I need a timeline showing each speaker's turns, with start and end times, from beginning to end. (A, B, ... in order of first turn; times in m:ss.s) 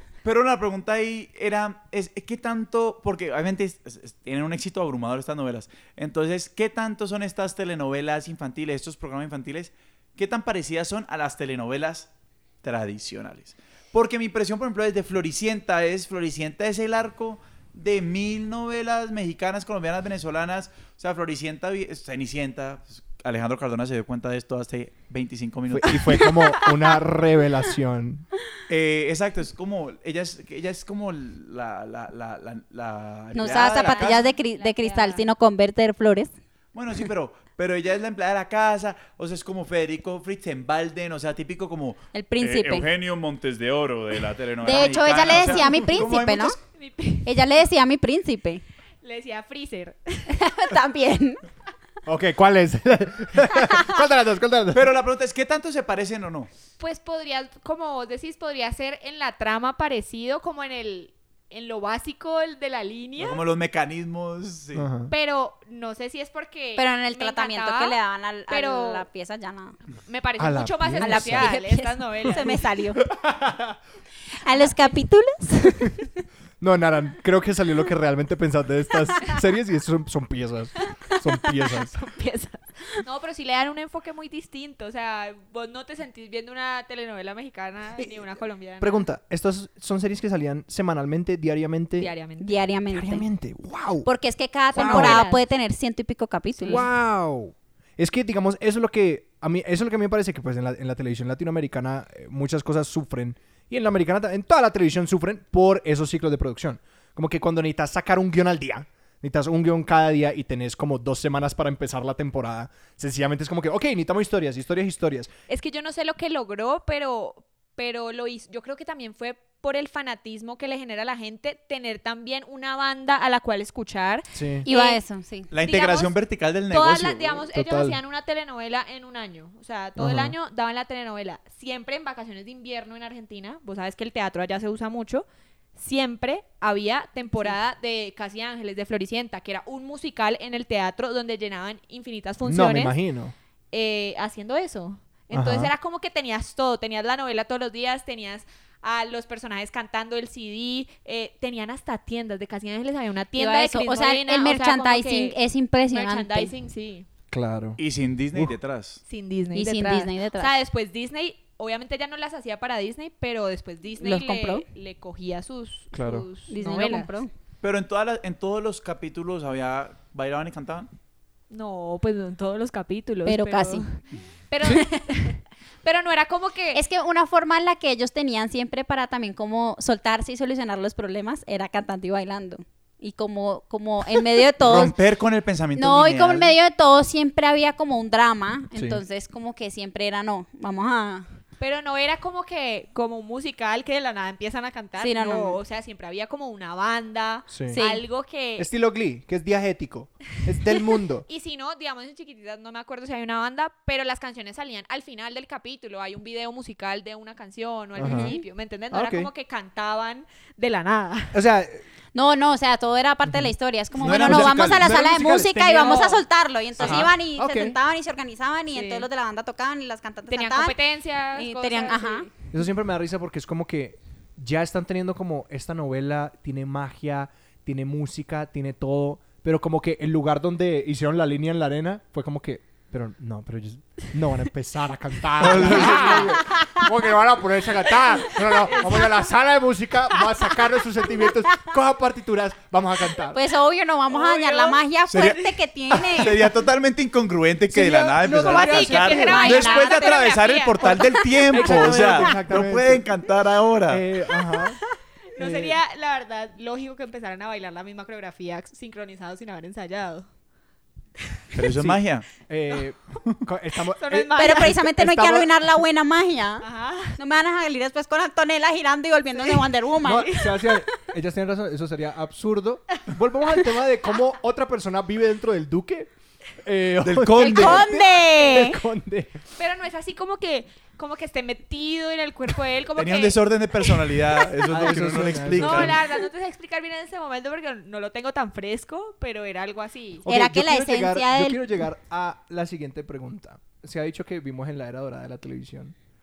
0:00.2-0:12.1 A
0:12.6-0:26.3 A
0:25.7-0:28.2 B
0:28.7-0:34.3 A
0:33.3-0:36.3 C
0:33.4-0:35.3 D
0:36.7-0:46.6 A
0:42.1-0:42.9 C
0:44.6-0:46.6 C
0:46.7-0:47.4 D
0:47.2-0:48.6 C
0:49.0-0:50.3 D
0:50.3-0:51.4 C
0:52.0-0:54.9 B
0:53.6-0:54.0 C
0:54.7-0:56.5 A
0:56.8-1:03.4 D
1:03.2-1:04.9 A
1:04.7-1:05.1 B
1:05.1-1:08.0 D
1:06.8-1:09.8 C
1:08.5-1:09.0 D
1:10.1-1:12.7 D
1:10.4-1:11.5 B
1:11.0-1:13.0 C
1:13.0-1:13.8 B
1:14.4-1:16.2 C
1:16.6-1:21.9 B
1:21.7-1:29.0 D
1:28.8-1:32.1 B
1:32.0-1:32.6 D
1:32.4-1:33.2 C
1:32.9-1:34.1 B
1:34.0-1:36.8 C
1:34.7-1:35.4 D
1:34.7-1:35.2 B
1:36.6-1:36.9 D
1:36.7-1:55.3 B
1:55.5-2:05.0 D
2:04.3-2:04.6 B
2:04.6-2:05.5 C
2:05.5-2:07.5 A
2:05.6-2:06.1 D
2:06.7-2:15.2 D
2:07.5-2:08.0 B
2:10.0-2:10.3 B
2:15.8-2:23.0 D
2:22.4-2:23.3 B
2:23.7-2:35.4 D
2:25.3-2:25.7 B
2:33.4-2:36.5 C
2:35.9-2:37.1 D
2:37.3-2:37.8 B
2:37.8-2:39.0 A
2:39.1-2:47.1 D
2:39.5-2:40.5 C
2:44.0-2:44.6 C
2:45.9-2:46.3 B
2:46.5-2:47.3 C
2:47.6-2:50.9 A
2:51.5-2:56.8 D
2:53.2-2:53.8 C
2:54.6-2:55.0 C
2:56.7-3:05.0 C
3:04.6-3:06.5 A
3:05.8-3:11.3 C
3:08.7-3:09.0 B
3:11.6-3:18.7 D
3:15.0-3:15.6 C
3:17.5-3:17.8 B
3:17.7-3:18.0 C
3:18.6-3:21.2 B
3:21.3-3:31.4 D
3:28.0-3:28.3 B
3:28.0-3:28.4 C
3:28.9-3:29.3 B
3:31.3-3:31.8 B
3:32.1-3:40.8 C
3:33.2-3:36.1 B
3:34.0-3:35.1 A
3:35.7-3:36.2 D
3:36.8-3:37.1 A
3:36.8-3:37.8 B
3:38.7-3:39.1 D
3:40.3-3:42.3 D
3:41.3-3:42.3 C
3:42.5-4:03.4 B
3:55.4-3:56.3 A
3:55.6-3:56.9 C
3:58.7-3:59.1 D
4:03.3-4:06.5 C
4:04.1-4:05.3 D
4:05.1-4:14.0 A
4:08.1-4:09.5 B
4:08.2-4:11.1 D
4:08.6-4:10.2 C
4:11.5-4:13.0 B
4:13.9-4:14.8 B
4:15.3-4:20.2 D
4:15.4-4:15.8 B
4:21.5-4:22.2 A
4:21.7-4:25.5 B
4:23.9-4:24.8 D
4:24.4-4:30.3 C
4:26.6-4:27.2 D
4:29.3-4:30.8 D
4:30.0-4:36.1 B
4:36.6-4:39.4 B
4:37.0-4:37.9 A
4:37.4-4:38.8 C
4:39.6-4:44.5 D
4:43.0-4:46.0 A
4:44.7-4:46.0 B
4:45.6-4:50.2 D
4:50.2-4:55.9 B
4:50.3-4:51.6 C